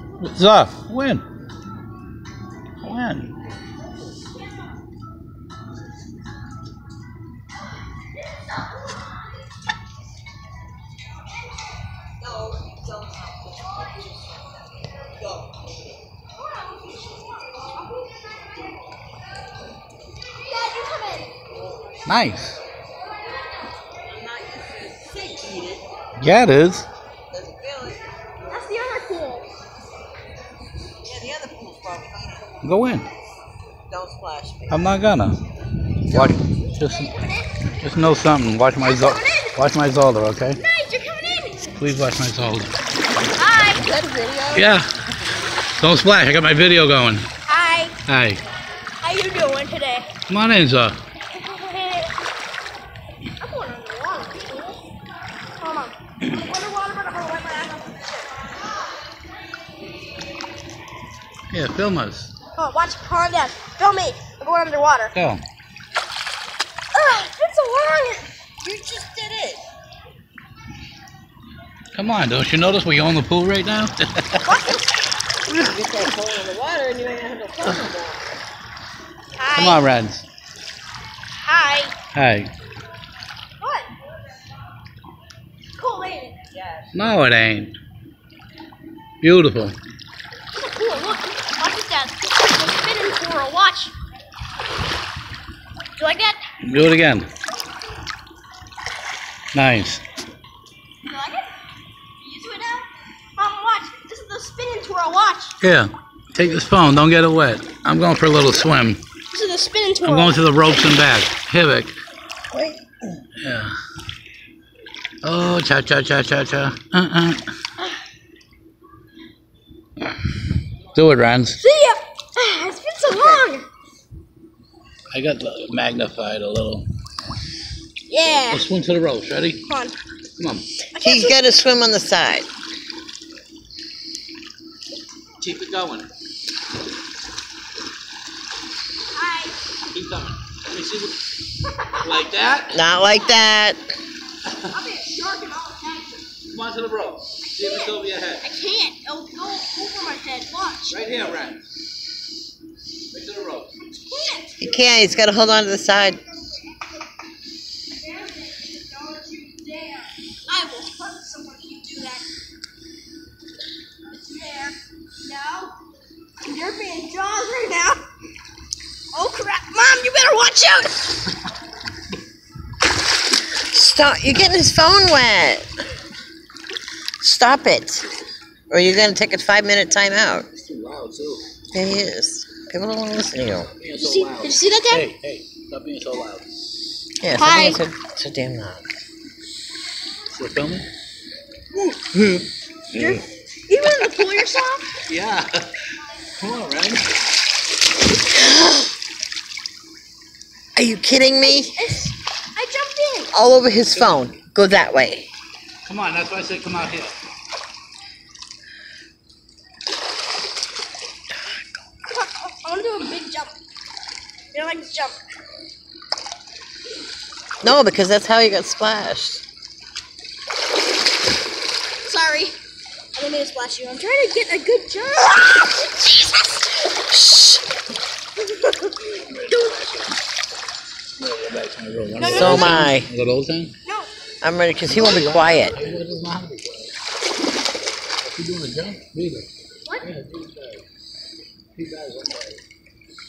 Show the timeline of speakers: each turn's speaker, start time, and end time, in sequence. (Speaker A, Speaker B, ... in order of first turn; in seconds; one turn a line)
Speaker A: 0.2-1.2
Speaker A: 2.8-3.3
Speaker B: 12.2-14.5
Speaker C: 16.4-17.7
Speaker C: 20.4-21.3
Speaker A: 22.1-22.6
Speaker B: 24.1-25.9
Speaker A: 26.2-26.9
Speaker B: 27.3-28.0
Speaker C: 28.5-29.5
Speaker B: 31.1-32.6
Speaker A: 32.6-33.1
Speaker B: 33.9-34.9
Speaker A: 34.7-35.4
Speaker A: 36.1-37.3
Speaker B: 36.1-36.4
Speaker C: 36.6-37.5
Speaker A: 37.8-40.6
Speaker C: 38.8-39.5
Speaker C: 40.5-41.8
Speaker A: 41.8-42.7
Speaker C: 43.4-43.9
Speaker B: 43.8-44.7
Speaker A: 44.5-44.9
Speaker A: 45.8-47.3
Speaker C: 47.5-48.0
Speaker A: 48.0-48.4
Speaker C: 49.0-50.1
Speaker A: 50.3-51.0
Speaker C: 51.3-52.1
Speaker C: 53.4-54.8
Speaker C: 55.6-58.3
Speaker A: 61.5-62.3
Speaker C: 62.5-65.1
Speaker A: 65.1-65.4
Speaker C: 66.9-68.3
Speaker B: 68.6-69.6
Speaker A: 71.9-74.7
Speaker C: 74.4-74.8
Speaker B: 75.5-78.2
Speaker C: 79.4-79.8
Speaker A: 79.5-80.2
Speaker C: 81.4-82.0
Speaker A: 82.1-82.5
Speaker C: 83.6-83.9
Speaker C: 85.8-86.4
Speaker B: 86.5-86.9
Speaker A: 86.9-87.8
Speaker A: 89.2-89.8
Speaker C: 90.5-93.9
Speaker C: 96.0-96.4
Speaker A: 96.6-97.3
Speaker A: 99.5-100.0
Speaker C: 101.0-101.5
Speaker C: 102.2-105.5
Speaker A: 105.6-109.0
Speaker C: 109.3-110.4
Speaker A: 110.0-111.9
Speaker B: 112.5-113.1
Speaker A: 113.4-113.7
Speaker A: 115.2-117.4
Speaker A: 121.0-121.6
Speaker C: 121.6-123.7
Speaker A: 125.1-126.9
Speaker C: 128.1-128.7
Speaker A: 128.5-129.6
Speaker C: 129.7-129.9
Speaker A: 130.4-130.7
Speaker C: 130.9-131.4
Speaker B: 131.0-132.5
Speaker A: 135.4-136.1
Speaker C: 139.1-139.6
Speaker A: 139.9-141.2
Speaker A: 142.0-142.8
Speaker B: 142.7-143.8
Speaker C: 143.0-143.4
Speaker C: 144.6-146.3
Speaker A: 146.5-148.4
Speaker C: 147.4-151.0
Speaker A: 150.9-151.6
Speaker A: 153.1-153.7
Speaker C: 153.8-154.7
Speaker B: 154.6-156.2
Speaker C: 157.9-162.2
Speaker C: 164.1-165.8
Speaker C: 166.4-168.0
Speaker C: 169.1-171.1
Speaker B: 173.6-175.7
Speaker B: 177.2-178.1
Speaker B: 178.7-180.5
Speaker A: 180.6-181.5
Speaker B: 181.7-183.7
Speaker A: 183.8-186.5
Speaker C: 184.0-185.1
Speaker B: 187.2-188.9
Speaker C: 187.4-187.8
Speaker A: 190.3-190.9
Speaker A: 191.9-193.2
Speaker C: 192.9-194.9
Speaker A: 194.0-194.2
Speaker A: 195.1-197.1
Speaker B: 200.8-201.8
Speaker C: 201.4-203.3
Speaker B: 203.3-205.3
Speaker A: 203.9-204.2
Speaker A: 205.9-207.2
Speaker C: 212.1-213.6
Speaker C: 214.5-215.2
Speaker B: 217.6-219.4
Speaker C: 222.0-222.6
Speaker C: 223.2-226.0
Speaker B: 227.1-227.7
Speaker C: 228.6-228.9
Speaker A: 229.0-230.2
Speaker C: 229.5-229.8
Speaker A: 231.2-233.7
Speaker C: 232.2-232.9
Speaker B: 232.3-233.1
Speaker C: 233.8-234.1
Speaker B: 234.4-235.8
Speaker A: 234.8-236.9
Speaker A: 238.2-239.5
Speaker A: 240.0-240.8
Speaker A: 241.8-242.6